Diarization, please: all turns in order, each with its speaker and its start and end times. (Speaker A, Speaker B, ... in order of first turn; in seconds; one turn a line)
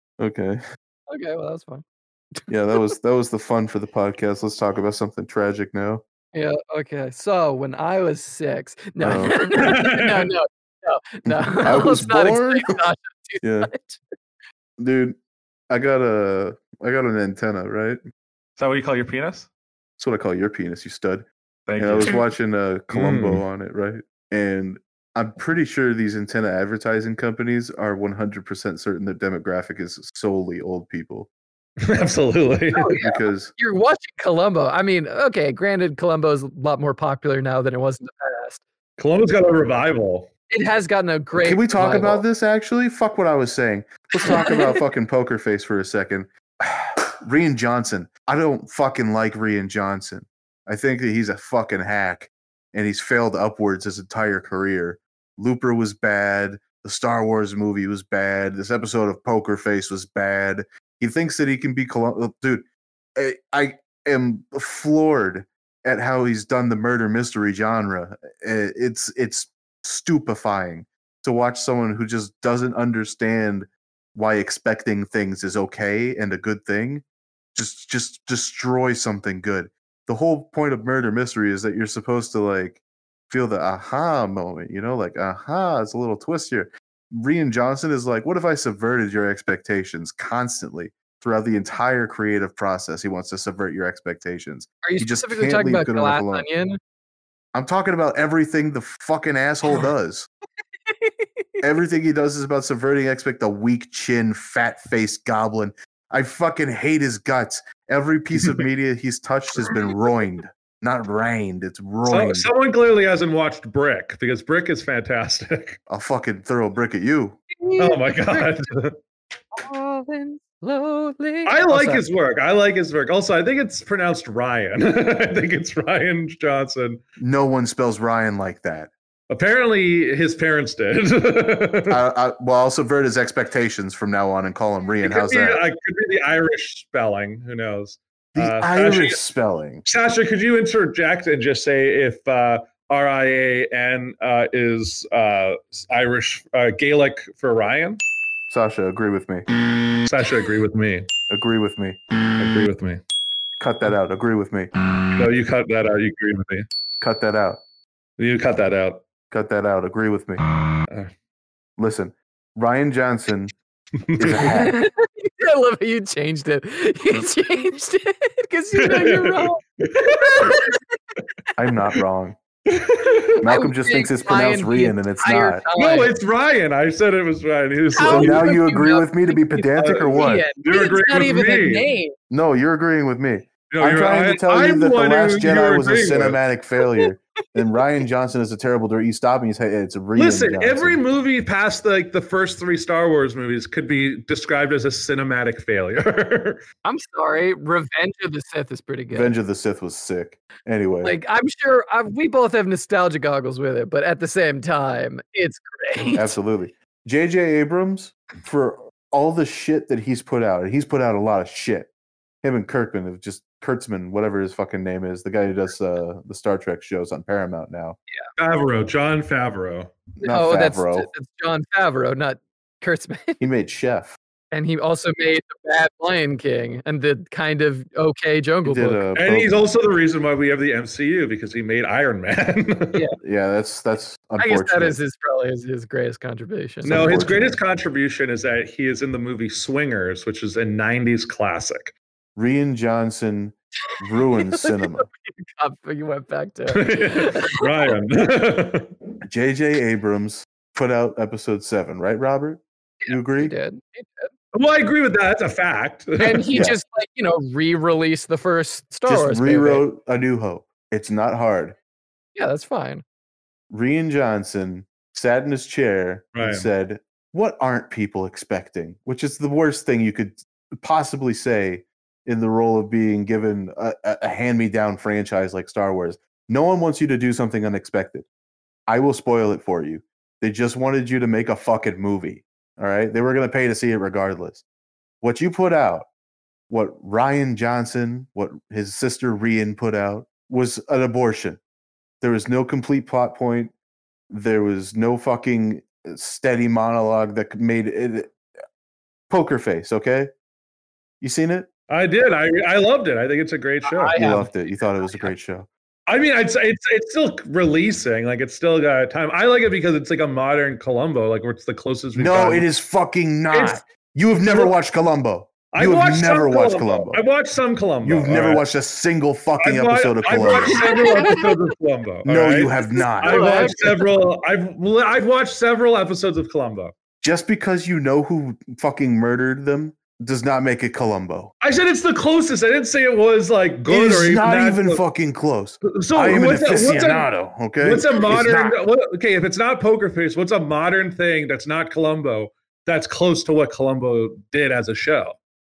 Speaker A: 0.2-0.6
Speaker B: 1.1-1.8
Speaker B: 2.4-2.9
Speaker A: 2.5-6.0
Speaker B: 6.3-14.0
Speaker A: 9.0-9.5
Speaker C: 9.5-10.3
Speaker A: 11.2-12.8
Speaker A: 13.4-13.7
Speaker A: 14.8-15.2
Speaker A: 15.7-18.0
Speaker C: 18.6-19.5
Speaker A: 20.0-21.3
Speaker C: 21.7-22.2
Speaker A: 21.8-31.3
Speaker C: 22.9-23.4
Speaker C: 31.8-32.9
Speaker B: 32.8-38.6
Speaker A: 33.0-33.5
Speaker C: 39.0-40.3
Speaker B: 40.5-42.2
Speaker A: 41.4-62.6
Speaker B: 44.2-44.7
Speaker A: 63.2-77.0
Speaker A: 77.5-96.5
Speaker B: 94.8-96.8
Speaker A: 97.5-100.3
Speaker B: 100.9-101.5
Speaker A: 101.6-112.5
Speaker C: 112.1-115.8
Speaker A: 115.9-117.4
Speaker B: 117.6-118.6
Speaker C: 117.8-119.0
Speaker B: 119.6-122.0
Speaker C: 121.5-127.0
Speaker A: 127.2-128.9
Speaker C: 129.3-132.0
Speaker A: 131.9-135.6
Speaker C: 135.0-139.2
Speaker A: 138.3-139.8
Speaker C: 139.9-148.0
Speaker A: 148.5-149.5
Speaker C: 150.0-151.1
Speaker A: 151.3-152.0
Speaker C: 152.3-153.0
Speaker A: 153.6-154.7
Speaker C: 155.1-156.7
Speaker A: 157.0-157.6
Speaker C: 158.2-159.1
Speaker A: 159.3-160.4
Speaker C: 160.9-161.1
Speaker A: 161.8-163.5
Speaker C: 164.0-164.5
Speaker A: 164.2-164.8
Speaker B: 164.5-170.8
Speaker C: 168.8-170.6
Speaker A: 171.6-172.4
Speaker C: 172.7-173.3
Speaker A: 173.4-175.6
Speaker B: 173.4-176.1
Speaker C: 175.8-178.5
Speaker B: 177.9-182.2
Speaker A: 178.1-180.5
Speaker C: 179.8-181.9
Speaker A: 182.3-191.0
Speaker C: 183.7-186.4
Speaker C: 190.2-196.6
Speaker B: 196.8-199.3
Speaker A: 199.1-201.2
Speaker B: 201.0-206.4
Speaker A: 206.2-211.9
Speaker A: 212.4-218.0
Speaker C: 218.4-219.9
Speaker A: 220.2-221.1
Speaker B: 220.2-223.4
Speaker A: 223.4-224.2
Speaker B: 224.5-229.0
Speaker A: 228.7-229.5
Speaker C: 229.2-233.0
Speaker A: 233.2-235.0
Speaker B: 234.4-237.0
Speaker A: 236.8-237.6
Speaker C: 236.8-241.9
Speaker A: 242.4-245.1
Speaker B: 244.6-245.0
Speaker B: 245.6-247.7
Speaker C: 246.7-248.9
Speaker A: 249.2-253.5
Speaker B: 253.0-254.3
Speaker C: 254.5-256.5
Speaker B: 256.2-259.9
Speaker A: 256.5-256.8
Speaker A: 259.1-261.8
Speaker B: 262.4-263.0
Speaker A: 263.7-278.3
Speaker C: 266.3-266.7
Speaker A: 278.9-284.6
Speaker A: 285.2-286.1
Speaker A: 286.7-291.6
Speaker A: 292.2-293.7
Speaker A: 294.3-298.3
Speaker A: 299.3-300.3
Speaker A: 301.2-301.7
Speaker C: 301.9-304.2
Speaker B: 303.9-305.3
Speaker A: 304.1-305.7
Speaker C: 306.1-312.7
Speaker A: 312.1-317.2
Speaker C: 313.5-313.8
Speaker C: 314.4-314.7
Speaker C: 315.7-318.6
Speaker A: 318.0-320.9
Speaker C: 319.6-326.9
Speaker B: 320.7-321.5
Speaker A: 322.3-323.8
Speaker B: 323.2-324.0
Speaker A: 327.2-331.5
Speaker C: 331.6-335.0
Speaker A: 333.9-338.8
Speaker C: 335.9-337.3
Speaker C: 337.8-345.4